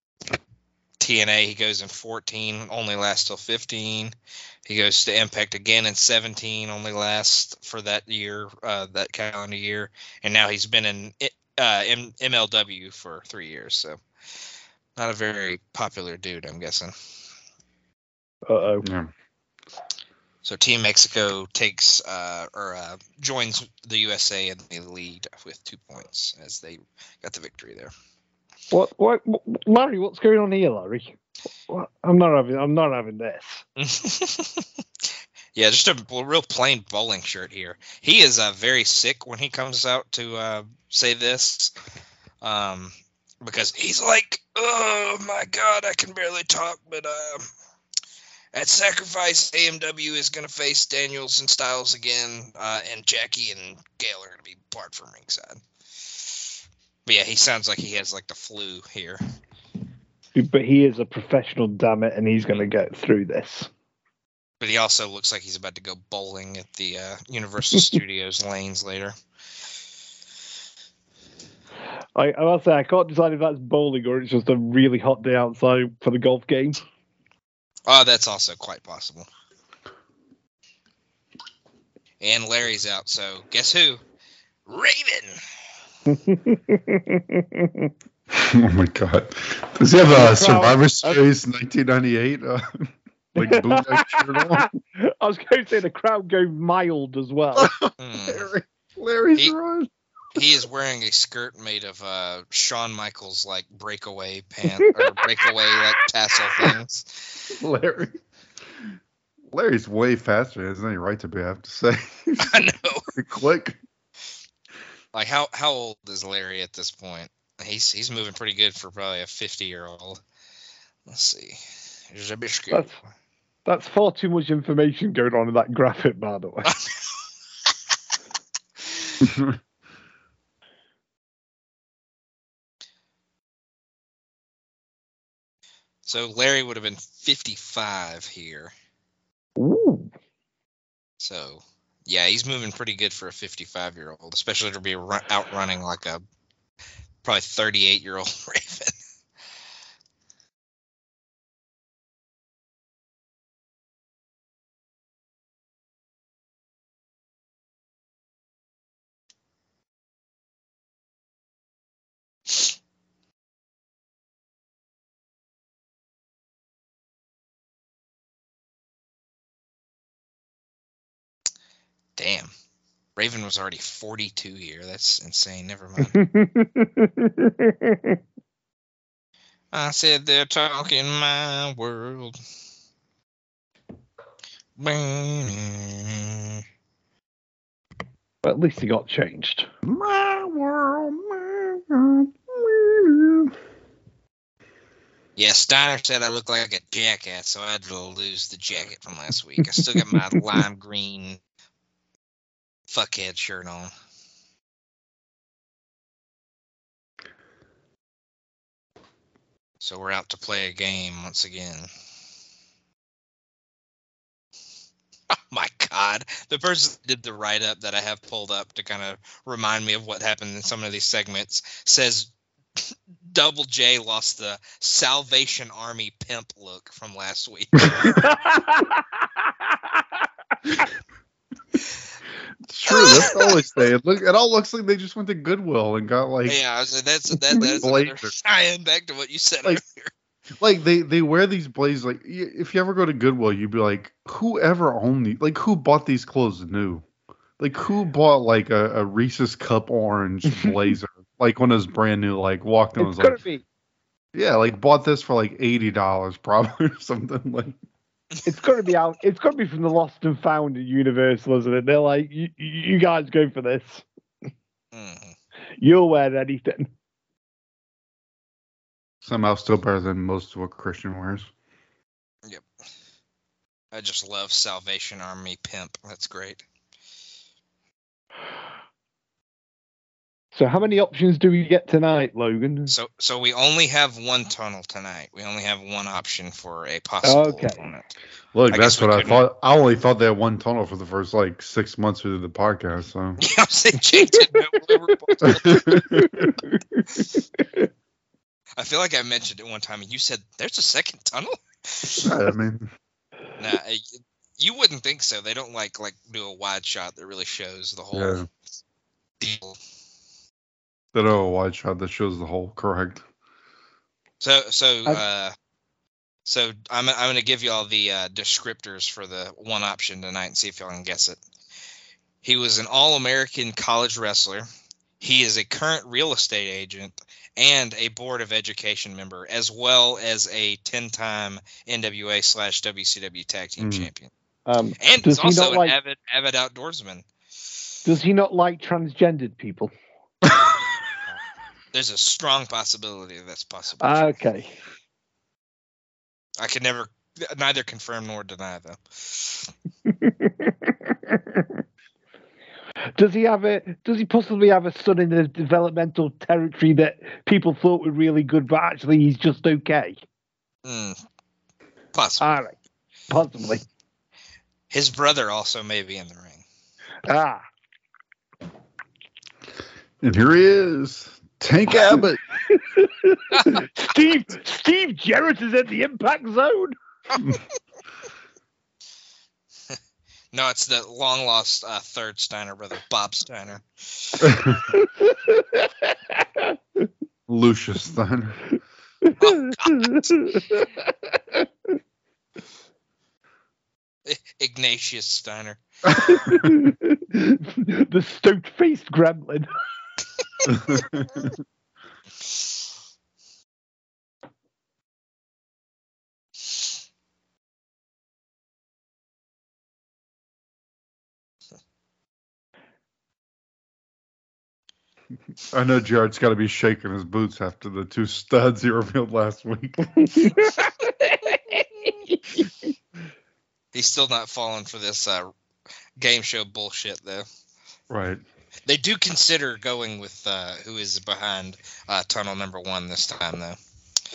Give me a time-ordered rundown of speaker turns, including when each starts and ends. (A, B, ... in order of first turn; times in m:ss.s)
0:01.0-0:04.1 A
0:04.7-0:14.0 A
0:15.0-0:16.9 A
0:18.5-0:18.9 B
0:18.8-0:19.1 C
0:20.4-0:27.9 A
0:28.7-0:31.2 B
0:31.7-0:33.6 B
0:33.8-0:41.7 A
0:42.4-0:47.5 A
0:48.5-0:56.6 A
0:57.1-0:59.2 A
1:00.4-1:03.7 B
1:04.6-1:09.1 A
1:12.2-1:16.8 B
1:17.9-1:19.3 A
1:22.2-1:24.0 A
1:24.7-1:25.4 A
1:26.1-1:27.9 B
1:28.3-1:34.7 C
1:30.1-1:31.2 B
1:33.4-1:37.8 B
1:37.6-1:39.9 C
1:38.0-1:38.5 A
1:40.3-1:47.5 A
1:44.8-1:45.2 B
1:47.5-1:48.2 C
1:49.5-1:53.8 C
1:52.4-1:53.1 A
1:55.1-2:00.2 A
2:01.1-2:03.1 A
2:03.7-2:06.7 B
2:09.2-2:09.6 C
2:16.1-2:18.7 A
2:19.6-2:20.1 B
2:21.2-2:26.2 A
2:27.2-2:29.0 A
2:52.2-2:52.5 A
2:53.2-2:56.2 A
2:56.0-2:58.2 B
2:59.7-3:02.4 A
3:04.8-3:06.6 A
3:08.4-3:09.7 B
3:09.8-3:13.5 C
3:15.4-3:21.4 A
3:22.9-3:23.9 A
3:29.8-3:31.9 A
3:35.3-3:48.5 A
3:48.2-3:49.0 B
3:49.7-3:50.0 B
3:52.7-3:56.6 C
3:52.9-3:53.6 A
3:56.5-4:00.1 A
3:57.6-3:58.3 C
4:00.6-4:07.0 C
4:07.6-4:13.4 C
4:10.5-4:10.9 B
4:13.0-4:13.6 B
4:14.3-4:17.8 C
4:18.4-4:24.0 B
4:24.9-4:25.4 A
4:25.8-4:26.9 B
4:29.2-4:31.5 C
4:33.9-4:36.6 A
4:40.5-4:42.9 B
4:42.9-4:48.0 A
4:47.2-4:47.9 B
4:48.5-4:53.4 C
4:48.7-4:49.4 A
4:53.4-4:56.0 A
4:54.2-4:54.8 B
4:55.4-4:56.5 C
4:55.7-4:57.9 B
4:58.8-5:02.3 A
5:02.1-5:02.9 C
5:03.6-5:08.4 A
5:08.1-5:08.5 C
5:09.4-5:09.8 A
5:11.1-5:13.2 C
5:14.4-5:15.5 A
5:16.5-5:21.4 A
5:22.4-5:24.7 A
5:25.2-5:34.3 A
5:33.8-5:34.1 C
5:34.7-5:36.0 B
5:35.0-5:37.3 A
5:38.1-5:39.9 B
5:40.5-5:40.8 C
5:41.9-5:44.3 A
5:44.0-5:44.7 B
5:46.6-5:49.7 A
5:50.1-5:51.7 B
5:53.2-6:00.2 B
6:00.8-6:01.2 A
6:02.2-6:02.5 A
6:02.4-6:02.8 B
6:03.3-6:03.8 B
6:04.9-6:06.6 A
6:07.2-6:07.6 B
6:10.2-6:12.4 C
6:12.7-6:17.0 B
6:13.5-6:13.8 A
6:20.5-6:24.6 A
6:24.4-6:24.9 C
6:24.9-6:26.7 B
6:27.5-6:28.6 C
6:29.2-6:31.7 B
6:29.4-6:30.4 A
6:34.3-6:35.8 A
6:36.1-6:36.7 C
6:36.2-6:39.7 B
6:40.7-6:41.6 C
6:55.7-7:00.5 C
7:00.3-7:02.6 B
7:03.9-7:05.5 A
7:06.2-7:07.5 A
7:08.1-7:08.4 C
7:08.9-7:13.8 A